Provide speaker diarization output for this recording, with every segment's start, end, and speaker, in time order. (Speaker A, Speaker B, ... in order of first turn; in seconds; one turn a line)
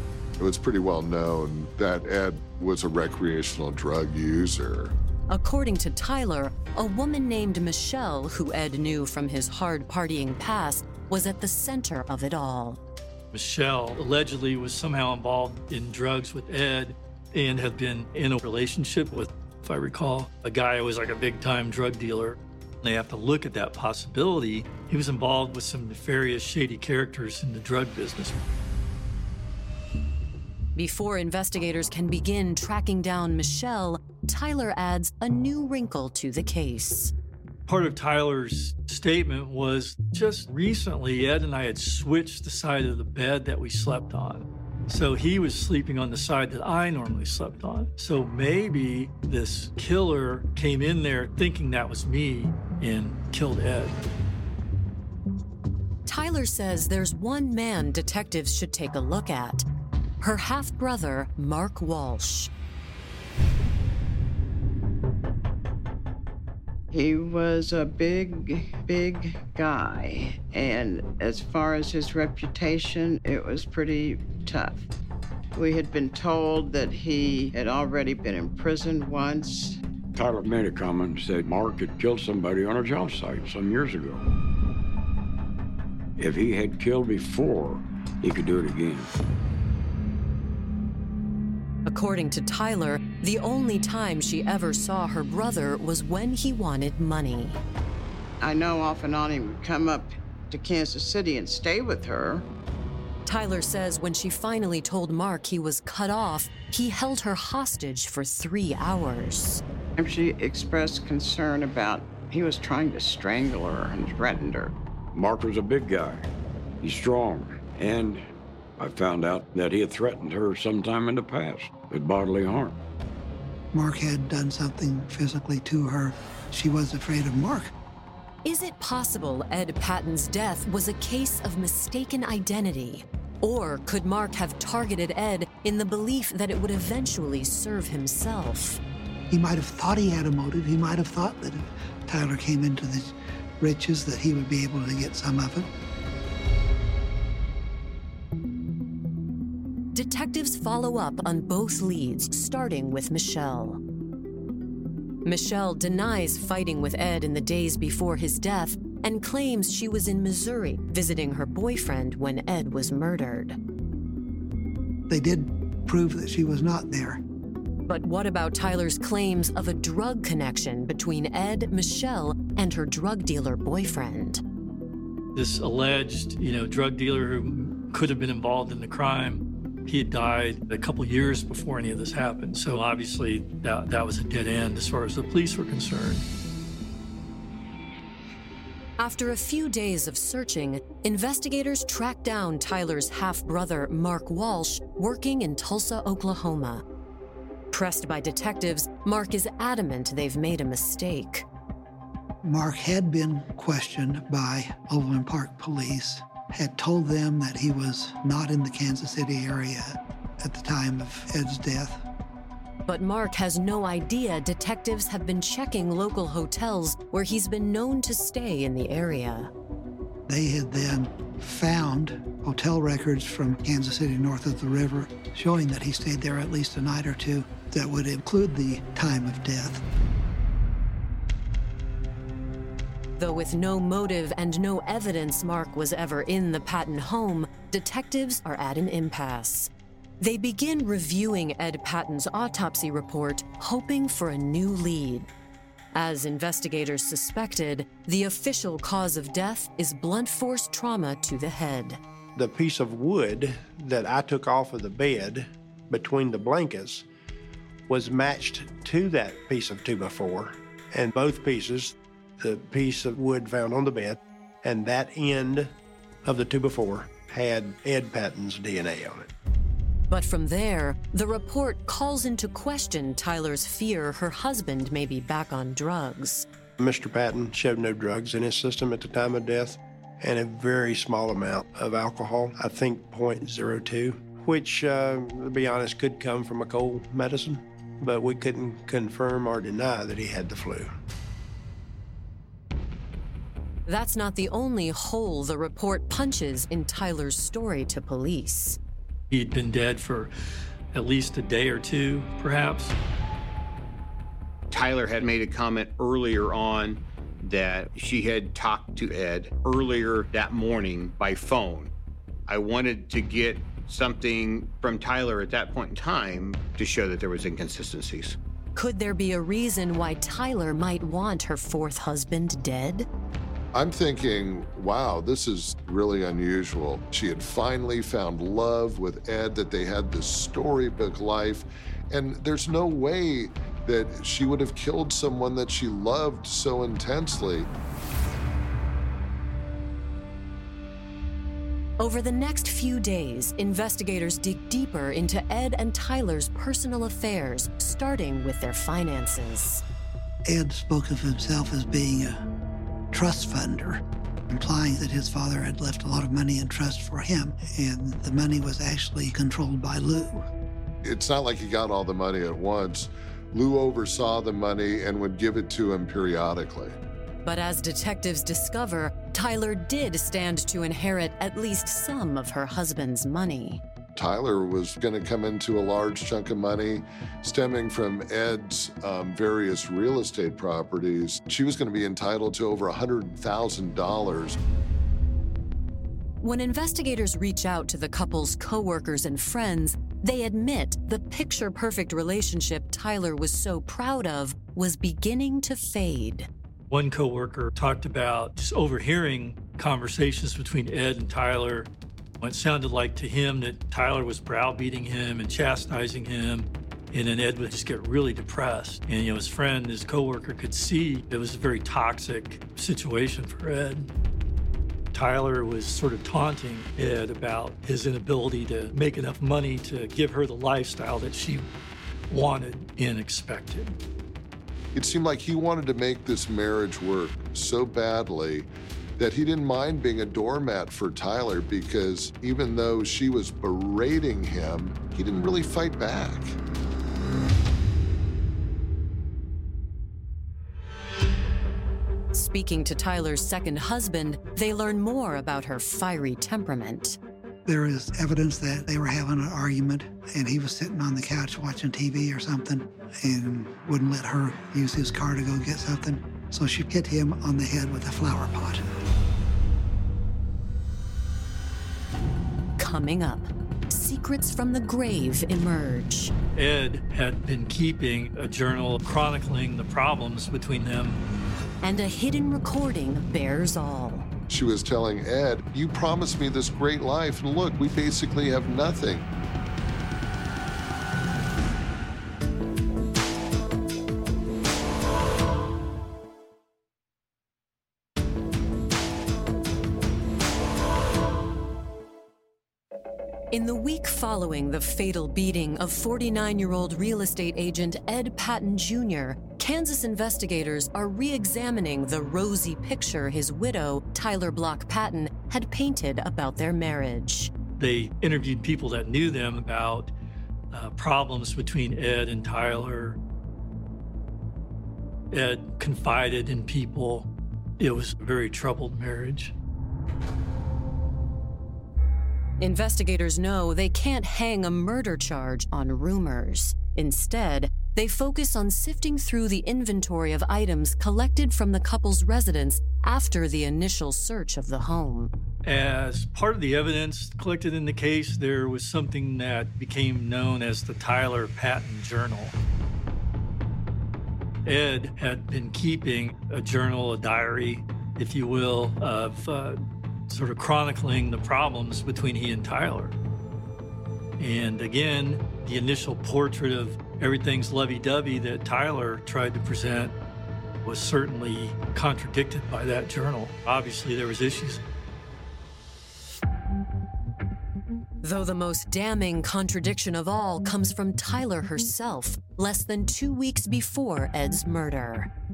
Speaker A: 0.4-4.9
Speaker B: 5.3-12.8
Speaker C: 13.3-28.4
Speaker B: 30.7-37.1
Speaker C: 37.7-54.0
Speaker B: 56.0-59.6
Speaker B: 60.2-62.5
Speaker D: 66.9-74.8
Speaker D: 75.5-79.8
Speaker E: 80.1-84.3
Speaker E: 86.2-89.1
Speaker B: 91.8-97.6
Speaker D: 98.4-102.5
Speaker B: 103.2-109.6
Speaker D: 110.0-114.7
Speaker E: 115.1-116.3
Speaker E: 116.8-122.8
Speaker F: 123.7-127.7
Speaker B: 128.4-138.8
Speaker F: 139.3-145.7
Speaker B: 149.9-153.8
Speaker B: 155.2-163.6
Speaker F: 165.1-167.2
Speaker B: 167.9-174.4
Speaker C: 175.3-186.2
Speaker B: 189.0-196.8
Speaker B: 197.7-201.4
Speaker F: 202.4-212.0
Speaker B: 212.8-219.5
Speaker F: 220.3-229.8
Speaker B: 233.2-245.3
Speaker B: 245.9-252.0
Speaker G: 252.3-257.0
Speaker G: 257.9-265.7
Speaker G: 266.2-269.3
Speaker B: 270.1-276.5
Speaker G: 276.8-290.9
Speaker B: 293.9-298.8
Speaker C: 299.3-300.3
Speaker C: 300.9-302.9
Speaker H: 304.7-311.9
Speaker H: 312.5-318.4
Speaker B: 318.8-323.1
Speaker A: 323.7-337.7
Speaker B: 342.0-349.8
Speaker F: 350.5-352.4
Speaker F: 353.1-360.4
Speaker A: 361.0-366.9
Speaker B: 367.4-373.8
Speaker A: 374.1-384.6
Speaker B: 386.4-396.5
Speaker C: 396.9-414.1
Speaker C: 415.1-421.6
Speaker C: 422.3-423.9
Speaker A: 424.9-436.6
Speaker B: 442.3-447.2
Speaker F: 447.6-458.8
Speaker B: 462.8-466.3
Speaker C: 466.5-471.2
Speaker B: 471.8-474.3
Speaker A: 474.5-479.2
Speaker B: 493.5-507.5
Speaker C: 507.7-510.1
Speaker C: 510.7-513.2
Speaker C: 515.3-517.3
Speaker C: 517.8-519.5
Speaker B: 522.6-535.3
Speaker C: 535.6-542.5
Speaker C: 544.6-553.1
Speaker C: 554.4-560.1
Speaker C: 560.8-564.8
Speaker B: 568.2-575.3